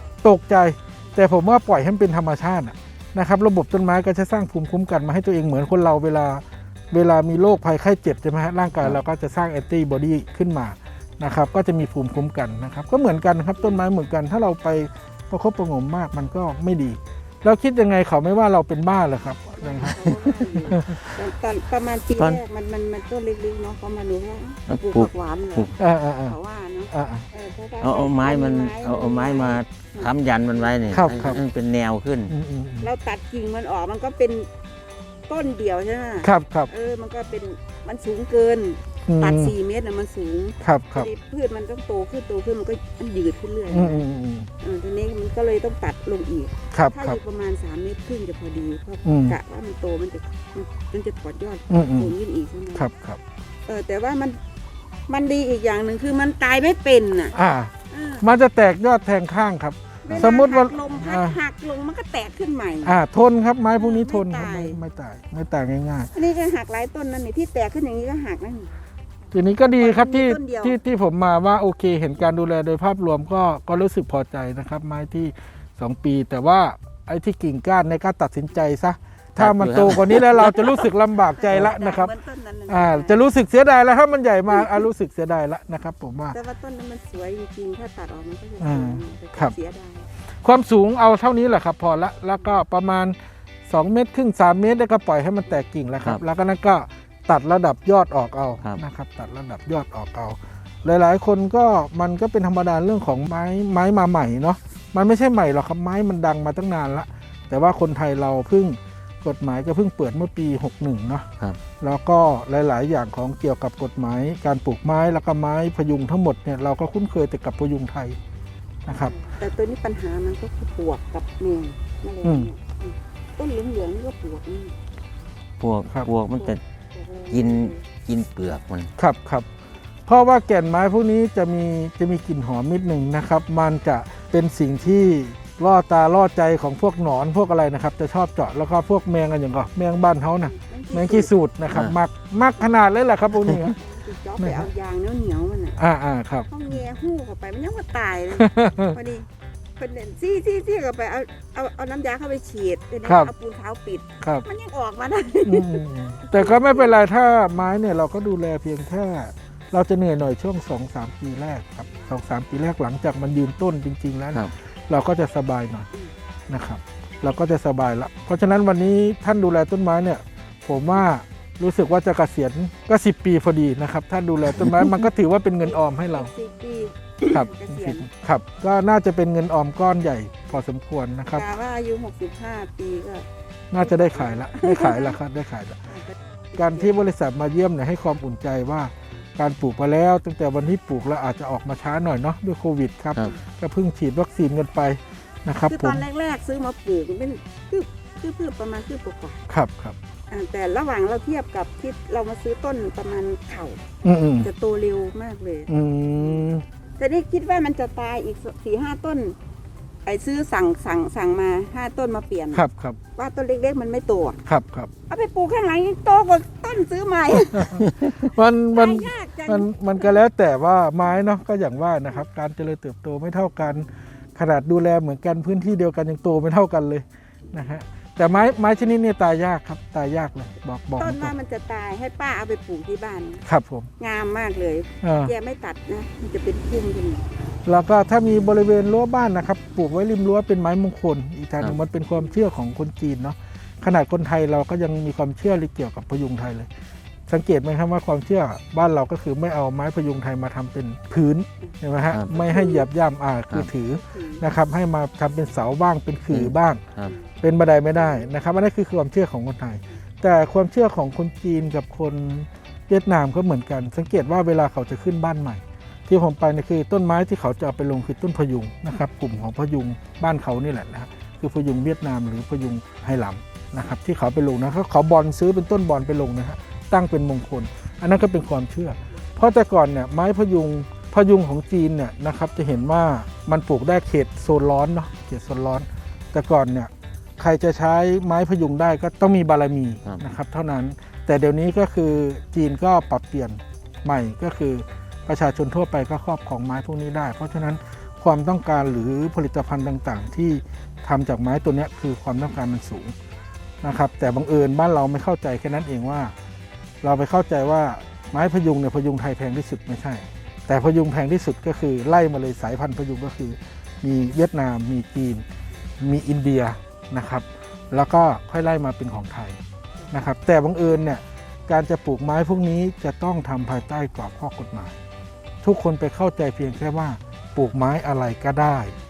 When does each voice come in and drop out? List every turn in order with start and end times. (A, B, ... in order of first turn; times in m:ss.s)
0:00.2-0:21.1 A
0:13.6-0:13.9 B
0:19.6-0:31.4 B
0:22.2-0:22.4 C
0:24.7-0:25.7 C
0:25.8-0:26.4 A
0:26.9-0:27.3 A
0:27.8-0:32.3 C
0:30.9-0:31.4 A
0:32.3-0:32.9 A
0:32.8-0:34.5 B
0:35.3-0:44.0 B
0:36.2-0:36.7 A
0:39.1-0:39.5 A
0:40.6-0:41.1 A
0:43.7-0:44.5 A
0:44.6-0:52.9 B
0:46.7-0:47.2 A
0:49.0-0:49.4 A
0:51.7-0:52.1 A
0:52.7-0:53.2 A
0:53.7-0:54.4 B
0:55.1-0:57.3 B
0:57.3-1:01.4 A
0:57.9-0:58.3 B
1:00.0-1:03.0 B
1:02.8-1:06.1 A
1:03.8-1:04.8 B
1:06.1-1:08.7 B
1:09.3-1:22.1 A
1:09.8-1:10.8 B
1:19.4-1:20.6 C
1:20.2-1:23.2 B
1:22.7-1:26.4 A
1:26.3-1:30.1 B
1:28.6-1:29.5 A
1:30.4-1:51.3 A
1:51.8-1:58.2 A
1:58.8-1:59.2 A
1:58.9-2:04.7 B
2:02.2-2:02.5 A
2:05.6-2:06.6 C
2:06.4-2:07.8 B
2:07.3-2:08.9 C
2:09.0-2:09.5 A
2:10.1-2:23.8 A
2:20.4-2:21.3 B
2:23.7-2:25.8 B
2:24.4-2:24.7 A
2:25.8-2:26.5 A
2:26.5-2:29.3 B
2:28.3-2:29.0 A
2:29.8-2:36.9 B
2:33.0-2:33.3 A
2:35.4-2:45.9 A
2:46.5-2:56.3 A
2:55.6-2:58.1 B
2:57.3-3:01.5 A
3:01.3-3:03.3 B
3:03.7-3:05.8 A
3:03.8-3:05.2 B
3:05.9-3:07.0 B
3:06.5-3:16.0 A
3:15.7-3:19.4 B
3:19.5-3:20.0 A
3:20.3-3:26.4 B
3:24.0-3:24.5 A
3:25.7-3:26.6 A
3:27.0-3:29.4 B
3:30.0-3:32.6 B
3:32.5-3:33.0 A
3:33.2-3:34.4 B
3:34.5-3:34.9 A
3:35.1-3:37.8 B
3:37.5-3:51.3 A
3:38.7-3:40.2 B
3:47.5-3:47.7 B
3:48.3-3:48.8 B
3:51.0-3:53.4 B
3:53.5-3:53.9 A
3:54.0-3:57.3 B
3:55.0-3:55.3 A
3:57.7-4:06.7 A
4:07.3-4:16.8 A
4:12.4-4:12.9 B
4:13.9-4:14.4 B
4:16.3-4:17.1 C
4:17.0-4:17.3 B
4:17.4-5:03.1 A
4:18.0-4:18.4 B
5:03.8-5:06.3 A
5:07.0-5:15.4 A
5:16.0-5:19.6 A
5:20.1-5:25.0 A
5:25.6-5:28.9 A